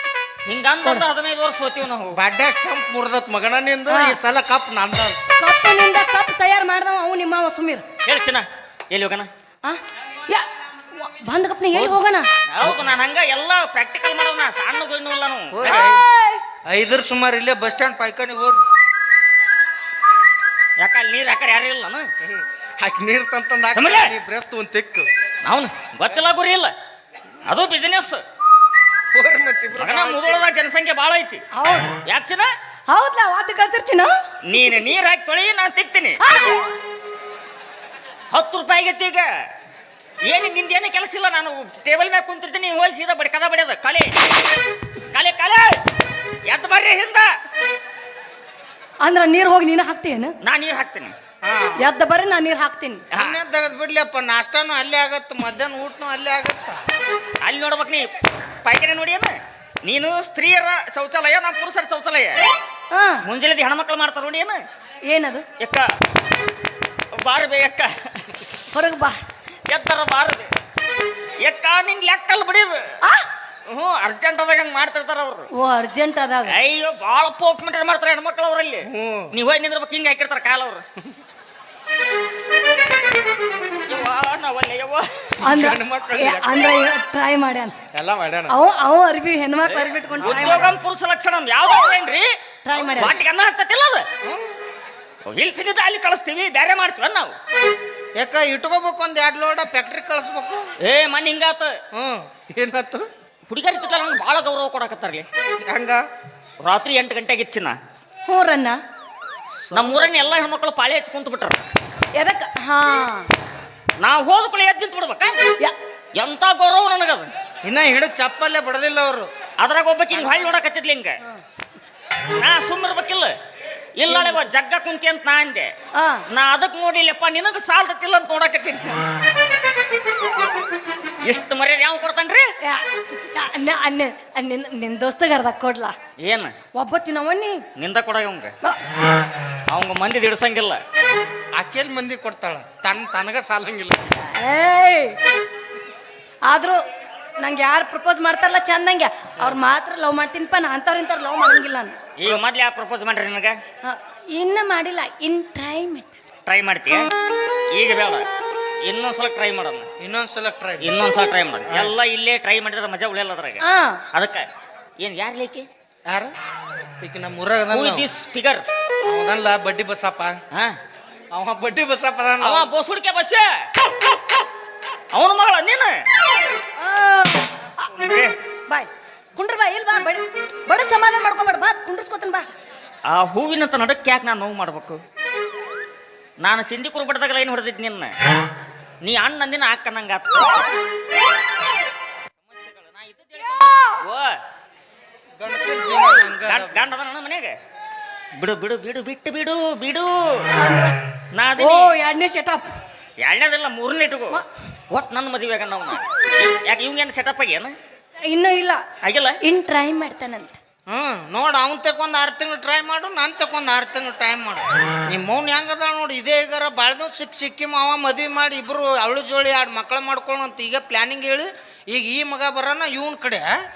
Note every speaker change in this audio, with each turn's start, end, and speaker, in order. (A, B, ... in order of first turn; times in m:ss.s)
0:00.5-0:02.2 A
0:02.1-0:05.2 B
0:03.9-0:04.2 C
0:05.4-0:07.8 C
0:08.0-0:09.3 A
0:09.6-0:12.3 C
0:12.5-0:15.9 A
0:15.5-0:16.0 B
0:15.6-0:16.4 C
0:16.7-0:18.6 B
0:20.8-0:22.1 A
0:22.8-0:25.1 B
0:23.7-0:24.1 A
0:25.4-0:26.7 A
0:27.4-0:28.2 A
0:29.1-0:30.4 B
0:29.8-0:31.4 A
0:31.6-0:31.9 C
0:32.0-0:32.5 A
0:32.9-0:34.1 C
0:34.5-0:36.2 A
0:36.2-0:36.5 C
0:38.3-0:39.3 A
0:40.2-0:44.2 A
0:45.1-0:45.8 A
0:46.5-0:47.3 A
0:49.0-0:50.3 C
0:50.4-0:51.1 A
0:51.4-0:51.8 B
0:51.8-0:53.0 C
0:53.1-0:53.4 A
0:53.2-0:56.8 B
0:57.4-0:58.1 A
0:58.6-1:02.4 A
1:02.9-1:03.2 C
1:03.2-1:04.6 A
1:05.1-1:05.4 C
1:05.6-1:05.9 A
1:07.2-1:08.2 A
1:08.7-1:09.1 C
1:09.7-1:10.5 A
1:11.4-1:12.9 A
1:13.7-1:15.5 A
1:15.5-1:16.6 C
1:16.5-1:20.8 A
1:18.8-1:19.3 B
1:23.9-1:25.3 A
1:25.4-1:27.8 C
1:25.5-1:26.6 B
1:27.9-1:28.6 B
1:28.5-1:30.7 C
1:29.7-1:34.1 A
1:30.2-1:30.7 B
1:32.6-1:33.2 C
1:34.2-1:34.5 B
1:35.2-1:37.3 A
1:38.2-1:40.7 B
1:40.8-1:41.7 A
1:41.9-1:43.1 B
1:43.5-1:45.3 A
1:45.6-1:46.0 B
1:46.6-1:47.8 A
1:48.3-1:48.8 C
1:49.7-1:50.2 B
1:49.7-1:51.6 A
1:52.2-1:53.3 C
1:54.0-1:55.4 A
1:56.2-1:57.3 A
1:57.6-1:59.3 B
1:59.6-2:01.2 A
2:02.4-2:03.3 A
2:04.0-2:05.7 A
2:06.0-2:06.2 C
2:06.3-2:09.0 A
2:11.2-2:12.5 A
2:12.6-2:15.9 C
2:16.2-2:16.5 A
2:16.8-2:17.6 C
2:17.8-2:18.5 A
2:19.7-2:20.8 A
2:21.6-2:24.0 B
2:24.2-2:25.2 C
2:26.5-2:26.8 C
2:27.4-2:32.0 C
2:32.2-2:33.6 A
2:33.8-2:36.2 C
2:36.5-2:37.1 A
2:37.7-2:38.3 A
2:38.8-2:39.9 A
2:40.0-2:40.9 B
2:40.8-2:44.5 A
2:41.7-2:41.9 B
2:43.6-2:44.0 C
2:45.0-2:45.7 A
2:46.1-2:46.3 B
2:47.0-2:48.1 B
2:47.7-2:48.7 A
2:49.0-2:50.4 B
2:51.3-2:52.7 B
2:52.4-2:53.6 A
2:55.1-2:56.0 A
2:56.8-2:57.9 C
2:58.0-2:58.4 A
2:58.7-3:02.5 C
3:03.1-3:05.0 A
3:06.4-3:08.1 A
3:09.0-3:10.7 A
3:12.4-3:14.4 A
3:15.4-3:16.9 B
3:16.4-3:17.5 A
3:18.4-3:20.5 A
3:20.5-3:21.0 C
3:21.3-3:22.0 A
3:21.6-3:22.6 C
3:23.2-3:27.8 A
3:28.3-3:28.8 C
3:29.0-3:29.4 A
3:29.4-3:30.6 C
3:30.9-3:43.5 B